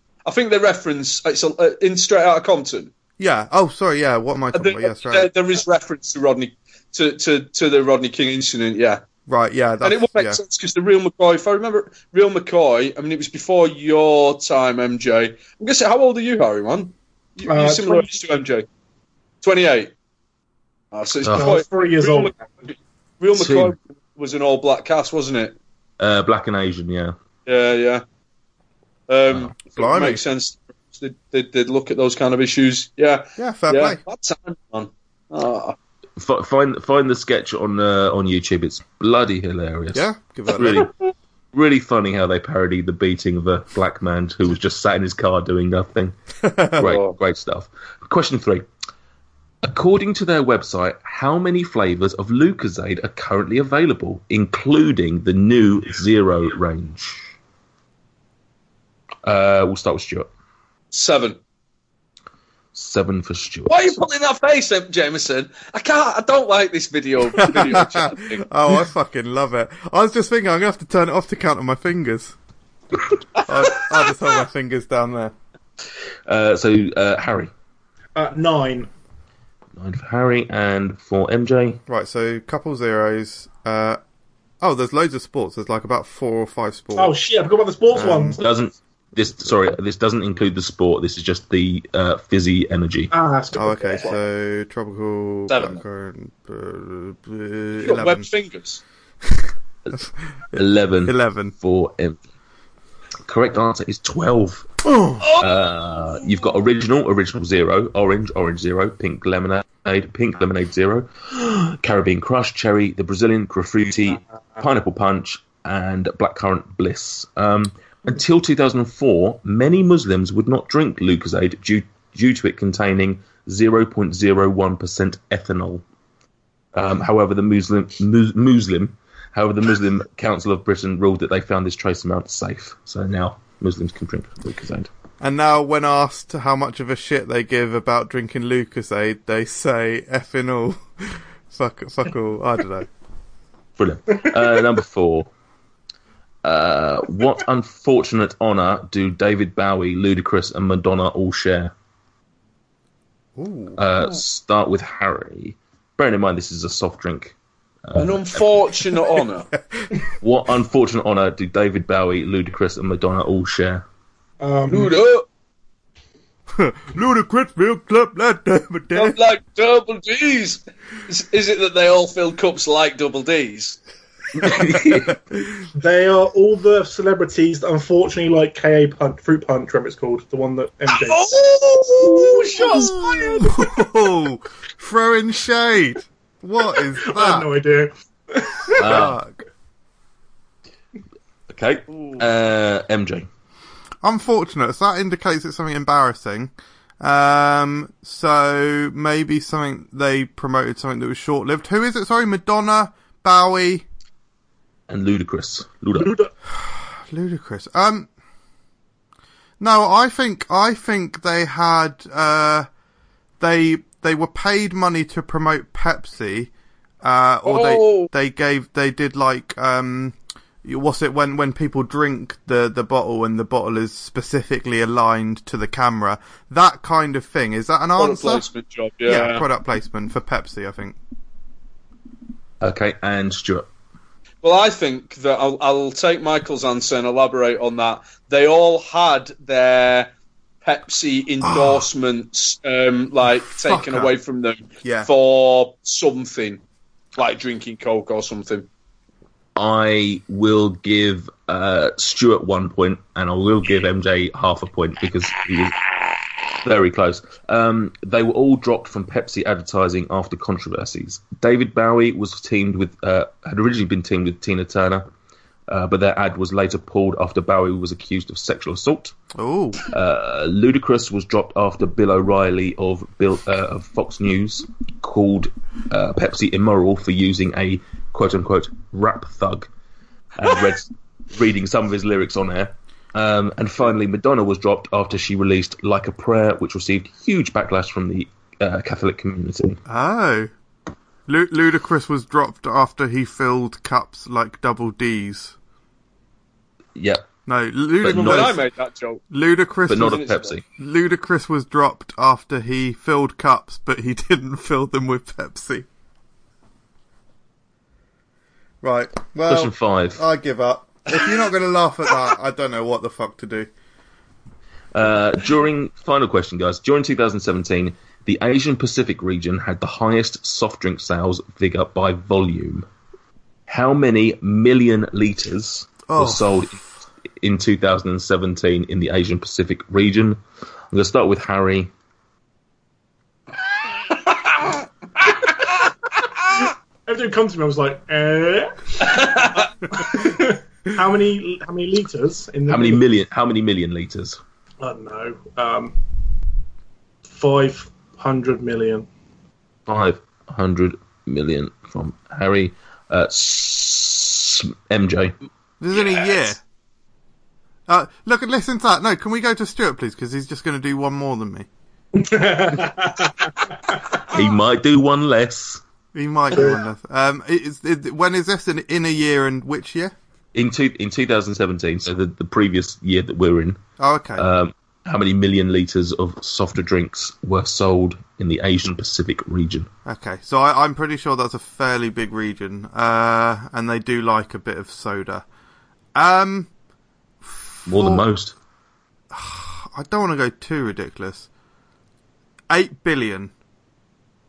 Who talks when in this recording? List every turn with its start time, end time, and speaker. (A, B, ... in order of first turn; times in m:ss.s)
0:00.2-0:02.9 A
0:03.2-0:05.3 B
0:04.5-0:09.0 A
0:09.3-0:10.4 B
0:09.8-0:18.7 A
0:17.4-0:18.2 C
0:19.4-0:19.9 A
0:20.9-0:25.6 A
0:21.2-0:21.5 D
0:21.3-0:22.5 C
0:23.3-0:23.7 D
0:26.0-0:27.2 D
0:27.4-0:28.0 A
0:29.1-0:35.8 A
0:29.7-0:30.2 B
0:33.4-0:34.0 B
0:36.2-0:40.9 D
0:39.9-0:40.9 B
0:41.5-0:48.7 D
0:46.4-0:46.8 B
0:46.8-0:47.2 A
0:49.6-0:57.3 D
0:59.2-1:00.3 D
1:00.9-1:01.4 A
1:02.7-1:03.9 D
1:03.7-1:08.4 A
1:07.4-1:12.4 B
1:13.4-1:15.3 B
1:16.3-1:17.5 D
1:18.2-1:18.9 C
1:19.8-1:21.8 D
1:21.9-1:24.0 B
1:24.6-1:27.2 B
1:27.0-1:28.4 C
1:28.0-1:33.1 D
1:28.0-1:28.4 B
1:33.1-1:34.1 C
1:33.5-1:38.3 B
1:35.5-1:35.8 A
1:37.8-1:38.8 A
1:39.3-1:41.5 B
1:40.5-1:42.2 D
1:43.2-1:44.7 D
1:44.8-1:45.3 B
1:45.4-2:05.8 D
2:06.7-2:14.9 D
2:15.2-2:22.9 B
2:23.8-2:25.3 D
2:26.4-2:31.7 D
2:33.4-2:33.8 B
2:33.8-2:38.6 D
2:38.0-2:39.5 A
2:39.5-2:40.0 B
2:40.2-2:43.8 D
2:44.4-2:44.9 C
2:44.7-2:45.3 A
2:46.5-2:49.2 B
2:48.9-2:53.8 A
2:54.4-2:55.1 D
2:55.1-2:55.6 B
2:55.7-3:01.3 C
3:00.9-3:03.5 A
3:02.1-3:03.1 C
3:03.1-3:07.5 B
3:07.0-3:09.0 C
3:08.8-3:09.2 D
3:08.8-3:09.3 B
3:11.5-3:13.3 D
3:11.9-3:12.2 A
3:14.0-3:23.8 B
3:24.9-3:26.2 D
3:26.0-3:26.3 C
3:26.5-3:28.1 B
3:29.6-3:32.7 B
3:33.4-3:36.5 B
3:37.0-3:48.5 B
3:37.4-3:38.1 A
3:48.0-3:49.4 A
3:49.0-3:51.0 B
3:52.6-3:53.7 D
3:54.4-4:00.1 A
4:00.6-4:06.6 A
4:01.4-4:01.8 B
4:03.5-4:04.1 B
4:04.8-4:05.1 B
4:07.2-4:08.7 A
4:09.6-4:15.9 D
4:16.5-4:25.1 D
4:25.7-4:29.2 D
4:29.3-4:29.8 B
4:29.9-4:39.7 D
4:40.4-4:49.8 D
4:49.9-4:50.5 B
4:51.3-4:55.5 B
4:57.0-4:57.2 D
4:57.5-4:58.6 B
4:58.0-4:58.6 D
4:58.0-4:59.2 A
4:59.3-5:00.2 B
4:59.9-5:00.6 D
4:59.9-5:00.6 A
5:00.8-5:05.9 B
5:08.8-5:13.7 B
5:09.5-5:10.2 D
5:14.9-5:22.8 D
5:23.7-5:26.8 D
5:26.1-5:26.7 B
5:27.4-5:30.4 D
5:30.9-5:31.9 D
5:37.0-5:43.0 C
5:39.1-5:39.6 A
5:42.7-5:44.4 D
5:44.8-5:46.0 C
5:47.3-5:49.1 C
5:49.9-5:55.4 D
5:55.8-5:56.6 B
5:55.9-5:56.5 A
5:57.9-6:01.7 B
6:02.1-6:04.0 C
6:04.3-6:05.8 D
6:06.1-6:10.1 B
6:10.5-6:13.8 D
6:14.0-6:14.4 B
6:14.4-6:19.9 D
6:20.0-6:25.4 B
6:26.1-6:26.7 B
6:27.4-6:28.2 B
6:27.9-6:28.5 D
6:29.3-6:31.5 B
6:32.7-6:33.5 B